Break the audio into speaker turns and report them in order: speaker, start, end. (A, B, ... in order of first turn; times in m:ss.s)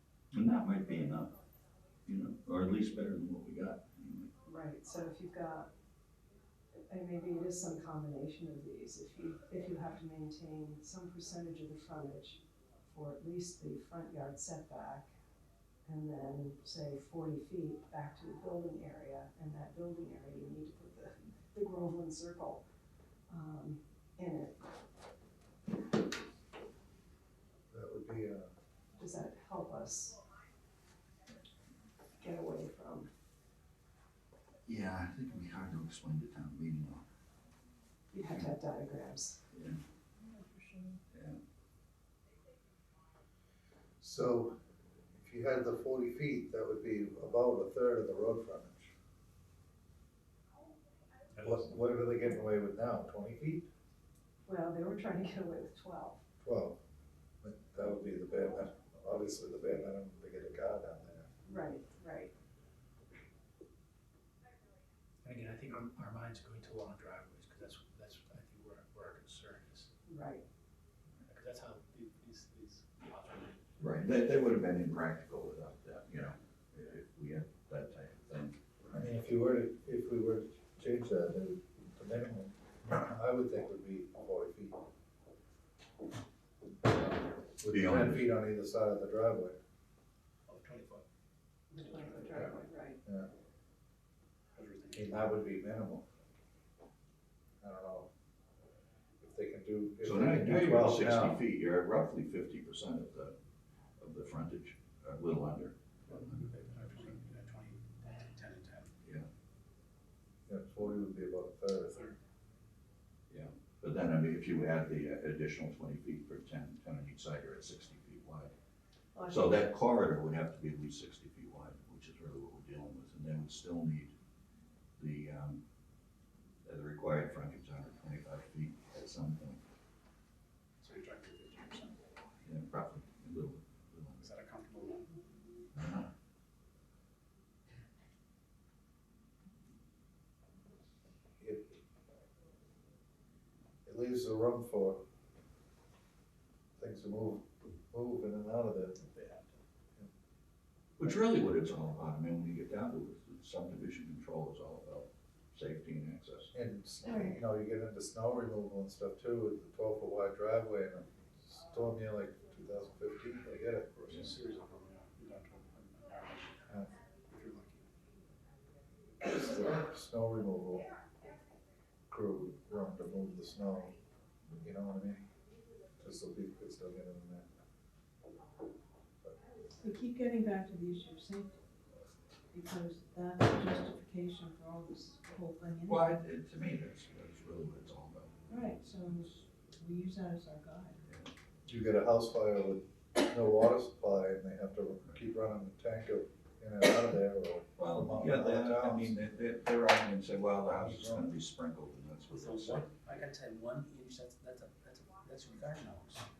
0:00.3-0:01.3 A
0:02.1-0:04.3 A
0:04.4-0:05.7 B
0:06.9-0:15.1 B
0:15.8-0:22.6 B
0:23.3-0:24.6 B
0:27.7-0:28.5 C
0:29.0-0:30.2 B
0:32.2-0:33.1 B
0:34.7-0:37.0 A
0:38.1-0:39.4 B
0:39.5-0:39.8 A
0:40.2-0:41.0 D
0:41.1-0:41.4 A
0:44.0-0:44.6 C
0:45.2-0:48.9 C
0:51.4-0:53.7 C
0:54.5-0:56.2 B
0:56.4-0:56.8 C
0:57.4-1:01.3 C
1:01.5-1:02.3 B
1:05.2-1:09.9 E
1:10.1-1:10.4 B
1:11.2-1:14.1 E
1:13.8-1:19.0 A
1:18.9-1:24.8 C
1:26.8-1:29.6 C
1:27.7-1:28.3 A
1:30.5-1:31.0 E
1:31.7-1:33.0 B
1:34.6-1:35.4 E
1:34.9-1:36.0 C
1:37.6-1:38.1 C
1:39.2-1:41.4 C
1:40.0-1:43.3 A
1:44.0-1:46.5 A
1:46.1-1:48.9 E
1:50.5-1:52.0 C
1:51.9-1:52.2 E
1:53.3-1:58.5 A
1:59.3-2:04.1 A
2:05.0-2:05.6 A
2:06.6-2:09.6 A
2:10.8-2:12.0 E
2:12.4-2:14.3 A
2:14.2-2:15.1 E
2:21.4-2:21.8 C
2:23.8-2:25.0 C
2:26.8-2:29.2 C
2:29.2-2:29.5 E
2:31.0-2:36.5 A
2:36.5-2:44.0 C
2:37.1-2:37.4 D
2:44.0-2:47.9 E
2:49.2-2:51.0 C
2:52.1-2:54.0 C
2:54.6-2:55.2 C
2:56.0-2:57.5 C
2:59.8-3:01.6 D
3:02.5-3:06.2 D
3:05.9-3:08.3 A
3:08.5-3:11.0 D
3:11.1-3:11.3 A
3:11.7-3:19.2 C
3:17.8-3:22.9 A
3:20.7-3:21.3 C
3:22.3-3:26.3 E